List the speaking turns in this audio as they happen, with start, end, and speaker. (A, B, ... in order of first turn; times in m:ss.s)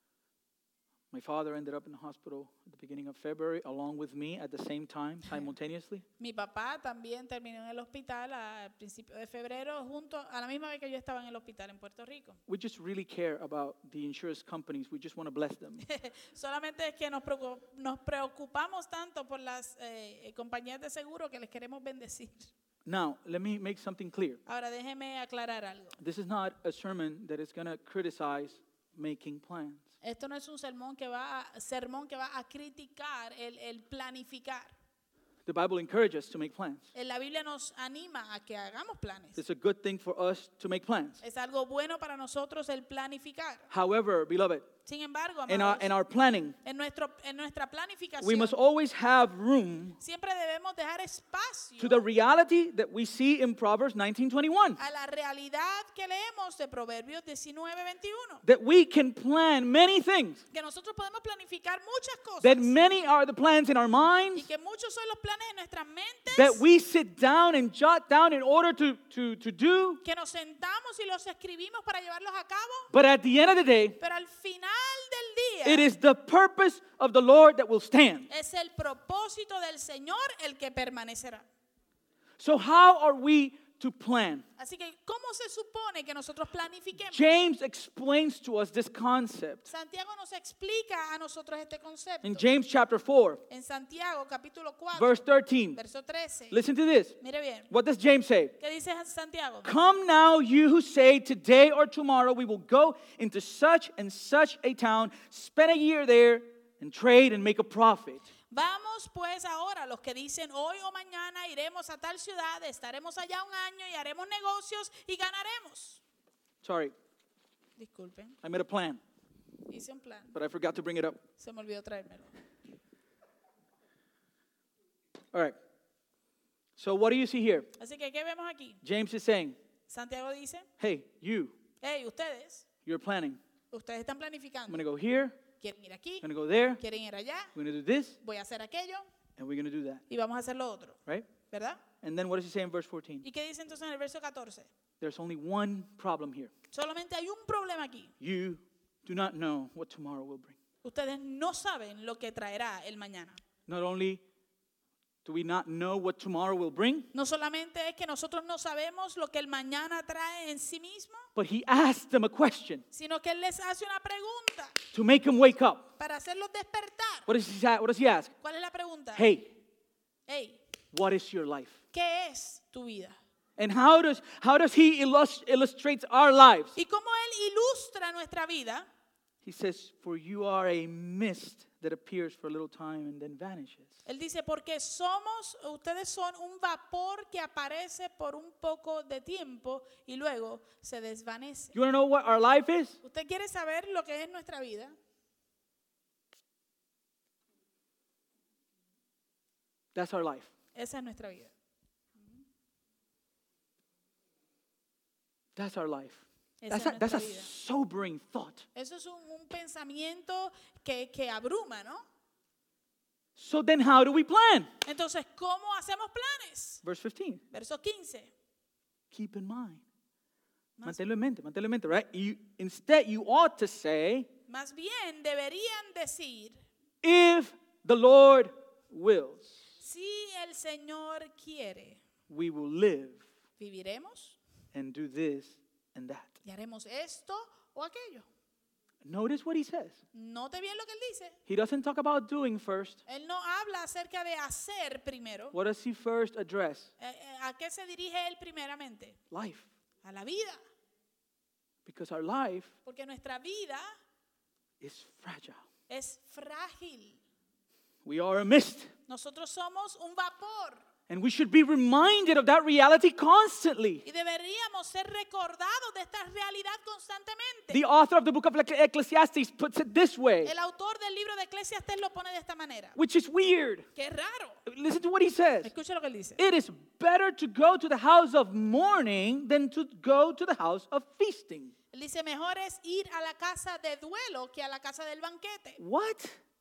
0:01.1-0:06.0 A
0:06.2-0:12.4 B
0:12.5-0:15.8 A
0:15.8-0:22.5 B
0:22.8-0:24.4 A
0:24.4-0:26.0 B
0:26.0-0:29.9 A
0:30.0-0:34.7 B
0:35.4-0:36.9 A
0:36.9-0:39.4 B
0:39.3-0:41.2 A
0:41.2-0:43.7 B
0:43.7-0:44.7 A
0:44.8-0:45.9 B
0:45.5-0:46.5 A
0:46.6-0:48.5 B
0:48.2-0:50.0 A
0:50.0-0:52.0 B
0:51.8-0:54.8 A
0:54.8-0:58.4 B
0:58.4-1:00.4 A
1:00.5-1:02.7 B
1:02.4-1:04.5 A
1:04.3-1:06.6 B
1:06.3-1:10.0 A
1:10.0-1:12.9 B
1:12.9-1:14.0 A
1:14.0-1:15.9 B
1:15.6-1:18.3 A
1:18.3-1:21.4 B
1:22.4-1:24.4 A
1:24.6-1:27.2 B
1:27.0-1:29.6 A
1:29.7-1:32.4 B
1:32.2-1:33.4 A
1:33.5-1:35.2 B
1:34.9-1:35.8 A
1:35.7-1:36.6 B
1:36.5-1:37.1 A
1:37.2-1:37.7 B
1:37.7-1:38.5 A
1:38.6-1:39.7 B
1:39.6-1:48.2 A
1:48.5-1:56.0 B
1:56.6-1:56.9 A
1:57.8-1:58.4 B
1:58.4-1:59.0 A
1:59.7-2:00.3 B
2:00.3-2:01.2 A
2:01.4-2:02.3 B
2:06.8-2:07.7 A
2:07.8-2:08.8 B
2:08.8-2:09.6 A
2:09.9-2:10.7 B
2:10.8-2:11.5 A
2:11.8-2:12.6 B
2:12.8-2:13.4 A
2:13.7-2:14.8 B
2:14.7-2:15.4 A
2:15.6-2:16.2 B
2:16.2-2:16.8 A
2:16.8-2:17.5 B
2:17.5-2:18.2 A
2:18.2-2:19.0 B
2:19.4-2:20.0 A
2:20.1-2:21.8 B
2:22.0-2:23.2 A
2:23.2-2:24.7 B
2:25.0-2:26.5 A
2:26.7-2:28.1 B
2:28.2-2:30.6 A
2:30.8-2:33.4 B
2:33.7-2:34.2 A
2:35.2-2:37.1 A
2:37.1-2:41.3 B
2:41.3-2:42.8 A
2:42.9-2:44.8 B
2:44.9-2:45.8 A
2:46.0-2:47.3 B
2:47.3-2:48.3 A
2:48.4-2:49.3 B
2:49.1-2:49.6 A
2:50.3-2:50.6 B
2:50.9-2:51.8 A
2:51.9-2:53.2 B
2:53.6-2:56.7 A
2:56.8-2:58.8 B
2:59.4-3:03.9 A
3:04.0-3:11.7 B
3:11.7-3:13.0 A
3:13.0-3:14.9 B
3:19.9-3:20.5 A
3:20.7-3:21.5 B
3:25.6-3:28.6 A
3:26.6-3:27.5 B
3:28.7-3:32.0 B
3:33.4-3:34.7 A
3:34.8-3:36.8 B
3:36.8-3:37.4 A
3:37.5-3:38.3 B
3:39.1-3:39.8 A
3:40.8-3:44.3 A
3:44.5-3:46.6 B
3:47.0-3:49.6 A
3:49.8-3:52.0 B
3:52.3-3:53.2 A
3:53.6-3:54.4 B
3:54.7-3:56.3 A
3:56.4-3:58.2 B
3:59.0-4:00.0 A
4:00.1-4:01.4 B
4:01.5-4:03.0 A
4:03.0-4:05.5 B
4:05.5-4:06.9 A
4:07.0-4:09.2 B
4:09.3-4:09.7 A
4:10.0-4:10.6 B
4:11.8-4:12.7 A
4:12.8-4:13.8 B
4:14.8-4:15.6 A
4:15.9-4:17.2 B
4:18.0-4:18.9 A
4:19.1-4:20.8 B
4:21.1-4:24.0 A
4:24.0-4:27.8 B
4:27.7-4:30.5 A
4:30.4-4:33.0 B
4:32.9-4:33.8 A
4:34.0-4:34.6 B
4:34.6-4:35.7 A
4:35.6-4:36.4 B
4:36.4-4:41.7 A
4:41.9-4:45.8 B
4:45.8-4:46.4 A